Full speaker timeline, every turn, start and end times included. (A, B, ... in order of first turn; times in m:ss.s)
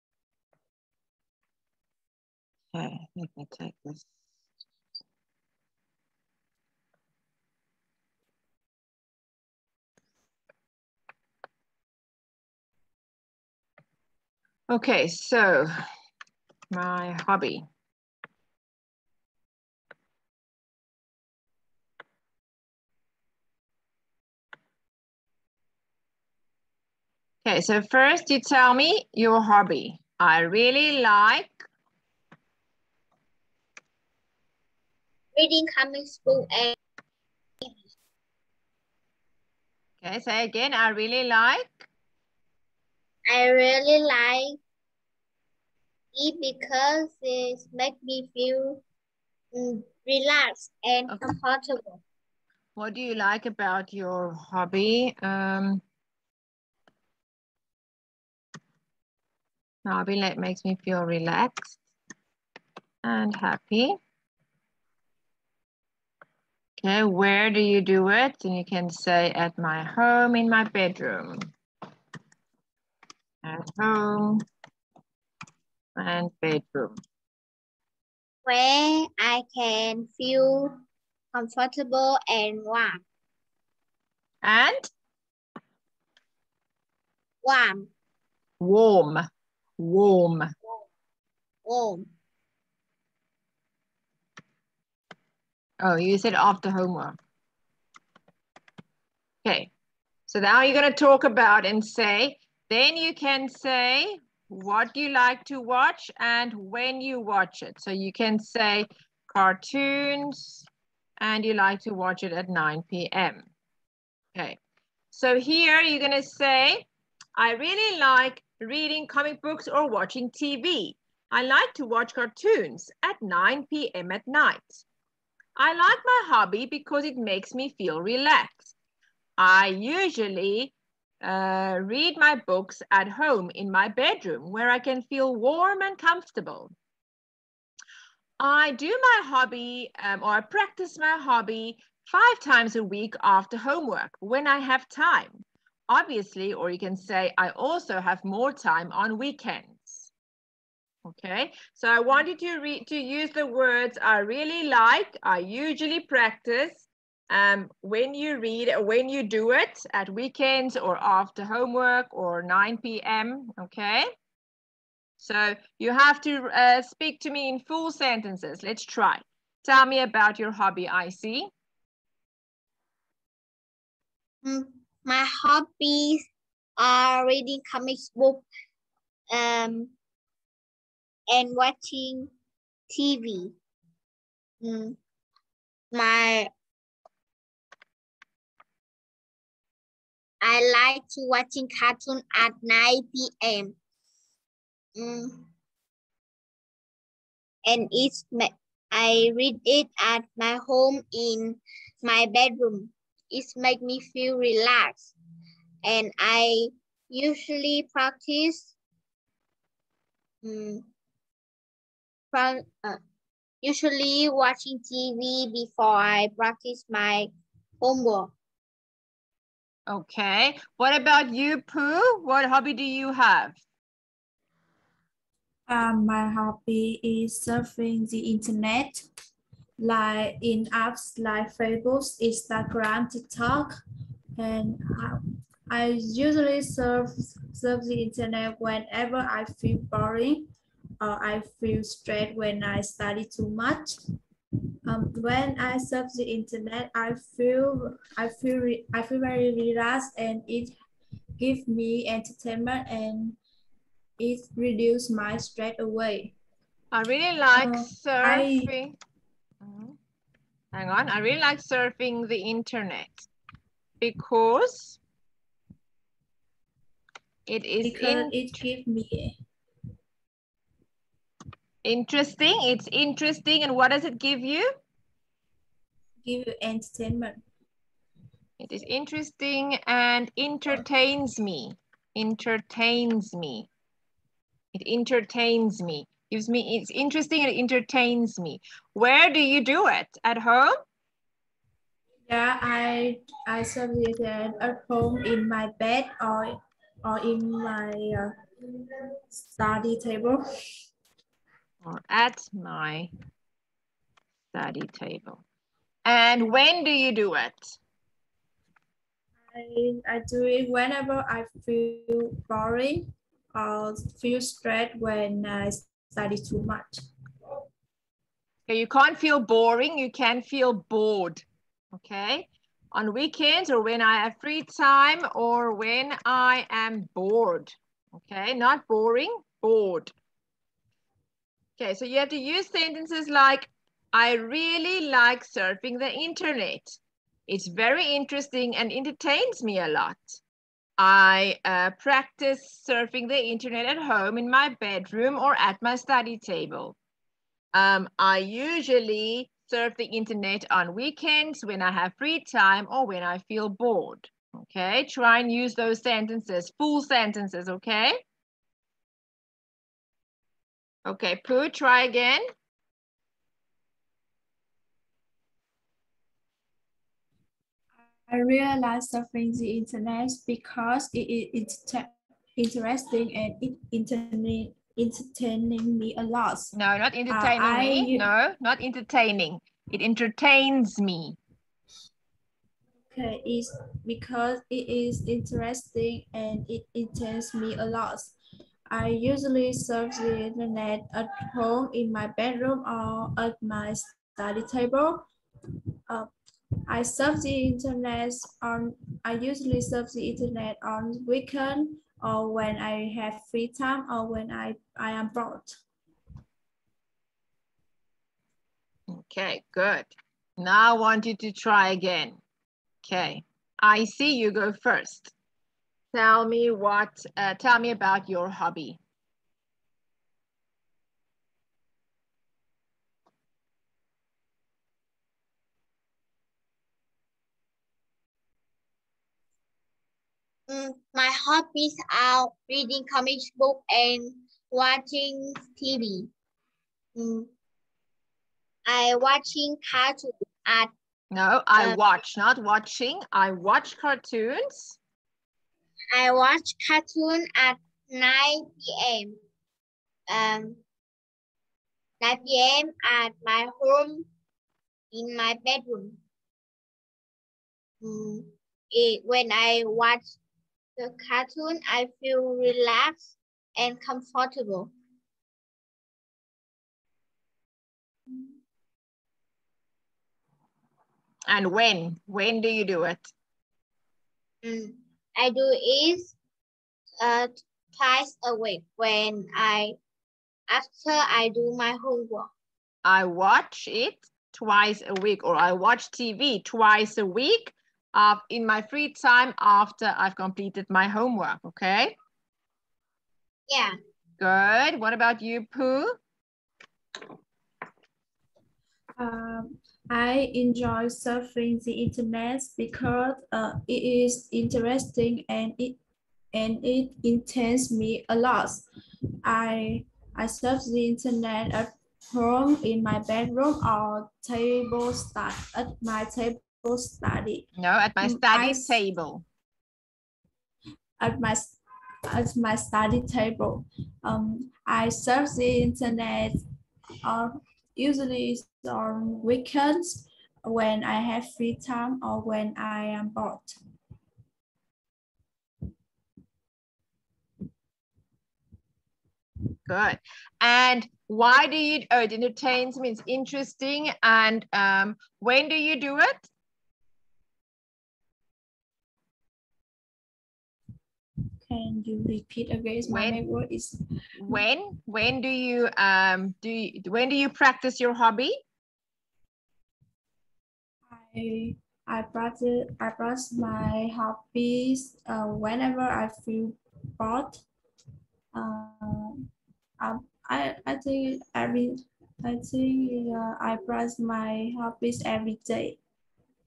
0:02.7-0:04.0 A
0:14.7-0:15.7 A
0:16.7-0:17.6 A
0:27.4-0:31.7 A
0:35.4-0:36.8 B
0:40.0-0:41.9 A
0:43.3-0:44.6 B
0:46.1-0:48.8 B
0:49.5-0:52.0 B
0:51.1-0:51.4 A
0:52.8-0:55.8 A
0:59.8-1:01.8 A
1:03.0-1:04.0 A
1:06.8-1:11.4 A
1:13.4-1:14.4 A
1:16.0-1:17.0 A
1:18.4-1:23.0 B
1:24.4-1:24.9 A
1:27.4-1:27.9 B
1:28.6-1:29.2 A
1:29.8-1:30.5 A
1:31.6-1:32.0 B
1:35.8-1:37.2 A
1:39.4-1:39.7 A
1:40.3-1:50.6 A
1:51.2-1:53.4 A
1:55.1-2:04.8 A
2:05.6-2:08.7 A
2:09.4-2:16.7 A
2:18.4-2:30.1 A
2:31.0-2:44.0 A
2:45.2-2:51.5 A
2:54.4-2:56.2 B
2:56.8-2:58.4 B
2:59.3-2:59.9 B
3:01.3-3:02.3 B
3:02.9-3:03.6 B
3:04.6-3:05.0 B
3:05.9-3:06.5 B
3:10.4-3:13.8 B
3:15.0-3:15.5 B
3:17.6-3:25.1 B
3:25.8-3:28.7 B
3:30.4-3:30.9 B
3:32.3-3:33.0 B
3:33.6-3:38.3 B
3:39.9-3:43.6 A
3:45.7-3:49.1 C
3:49.8-3:53.7 C
3:54.4-4:00.4 C
4:01.0-4:04.0 C
4:04.8-4:10.7 C
4:11.4-4:13.4 C
4:14.2-4:16.3 C
4:16.9-4:19.0 A
4:17.6-4:18.7 C
4:19.6-4:20.0 A
4:20.7-4:23.3 A
4:24.0-4:25.0 A
4:27.4-4:28.3 A
4:27.8-4:29.3 C
4:31.8-4:34.7 A
4:36.2-4:37.4 C
4:38.6-4:43.7 A
4:44.7-4:50.7 A
4:52.3-4:58.3 C
4:59.3-5:00.4 C
5:01.8-5:03.1 A
5:04.5-5:05.4 A
5:06.0-5:07.8 A
5:09.5-5:17.0 C
5:18.7-5:30.1 A
5:31.8-5:40.4 A
5:41.0-5:47.0 A
5:47.7-5:58.2 A
6:01.0-6:02.4 A
6:08.3-6:16.7 C
6:16.7-6:21.4 A
6:17.3-6:18.2 C
6:23.1-6:28.3 C
6:28.9-6:35.3 C
6:36.9-6:45.8 C
6:49.1-6:52.4 A
6:53.0-6:55.3 A
6:56.1-6:59.0 A
7:10.7-7:16.3 B
7:17.2-7:17.5 B
7:18.9-7:20.9 B
7:21.3-7:25.0 A
7:21.8-7:22.0 B
7:26.1-7:29.4 B
7:30.3-7:30.8 B
7:32.2-7:34.3 B
7:35.1-7:36.2 B
7:38.0-7:40.4 B
7:41.0-7:44.9 B
7:51.5-7:53.3 A
7:54.6-7:56.3 B
7:57.2-8:00.0 B
8:00.7-8:02.5 B
8:03.0-8:12.1 A
8:13.7-8:13.9 B
8:14.4-8:16.2 A
8:19.2-8:26.0 C
8:26.5-8:28.8 C
8:29.4-8:37.7 C
8:37.8-8:39.4 A
8:38.2-8:39.0 C
8:41.2-8:41.8 C
8:42.3-8:46.6 C
8:47.2-8:53.8 C
8:59.8-9:06.5 A
9:11.6-9:14.0 C
9:13.0-9:13.4 A
9:14.4-9:18.6 A
9:21.1-9:27.6 C
9:28.5-9:29.5 C
9:30.0-9:36.0 C